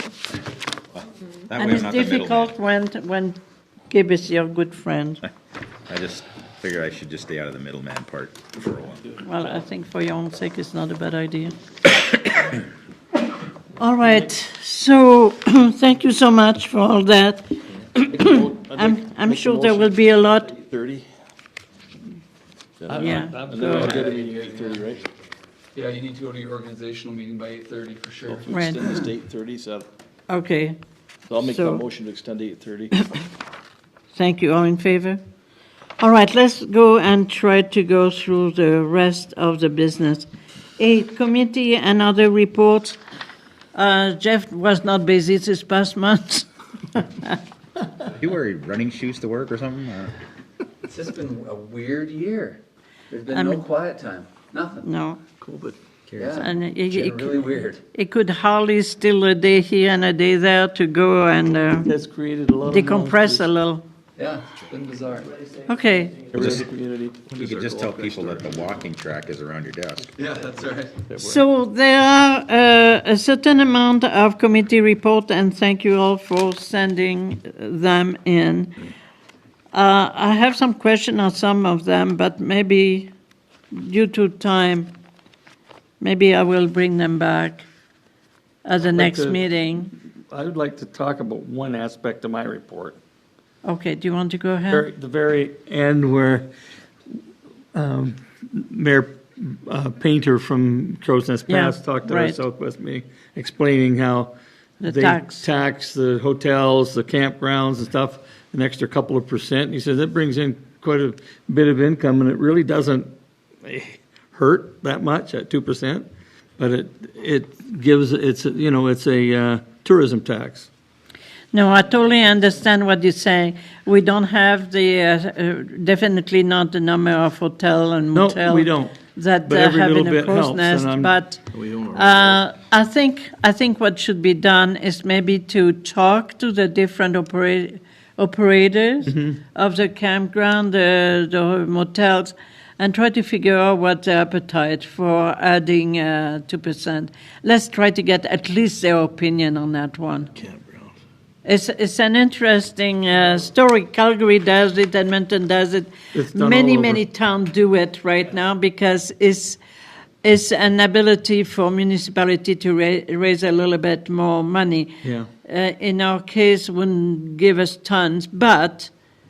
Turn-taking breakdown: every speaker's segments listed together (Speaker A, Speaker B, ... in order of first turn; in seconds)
Speaker A: 0.9-2.5, 5.9-9.1, 48.1-50.1, 56.1-56.4, 66.3-66.7, 67.3-70.1
Speaker B: 1.6-3.4, 3.9-5.2, 9.2-11.6, 13.8-20.5, 22.9-23.9, 28.5-28.8, 30.3-30.8, 31.4-31.8, 34.1-35.2, 36.0-43.0, 43.7-47.4, 53.3-53.6, 54.8-55.2, 56.4-61.9, 62.6-63.8, 65.7-66.3, 71.2-78.8, 79.7-83.1, 83.7-84.9, 86.0-87.7, 88.6-89.9, 93.6-94.9, 101.5-102.4, 104.8-105.5, 121.5-131.4, 131.9-150.3, 151.4-159.6, 160.2-168.9
Speaker C: 18.0-21.1, 22.9-25.0, 28.2-29.9, 31.3-33.1, 55.4-55.8, 66.3-66.6, 67.2-68.7, 71.1-71.4, 131.5-132.4, 150.3-151.0
Speaker D: 22.9-24.1, 61.9-63.5, 66.3-67.2, 88.9-89.4, 90.3-93.0, 94.7-96.5, 97.7-104.3, 104.8-113.1, 113.6-116.1, 116.6-120.7, 128.1-131.1, 139.1-139.4, 156.1-157.0
Speaker E: 23.6-24.9, 25.7-29.0, 50.8-54.9, 56.1-57.8, 64.2-65.3, 70.2-71.0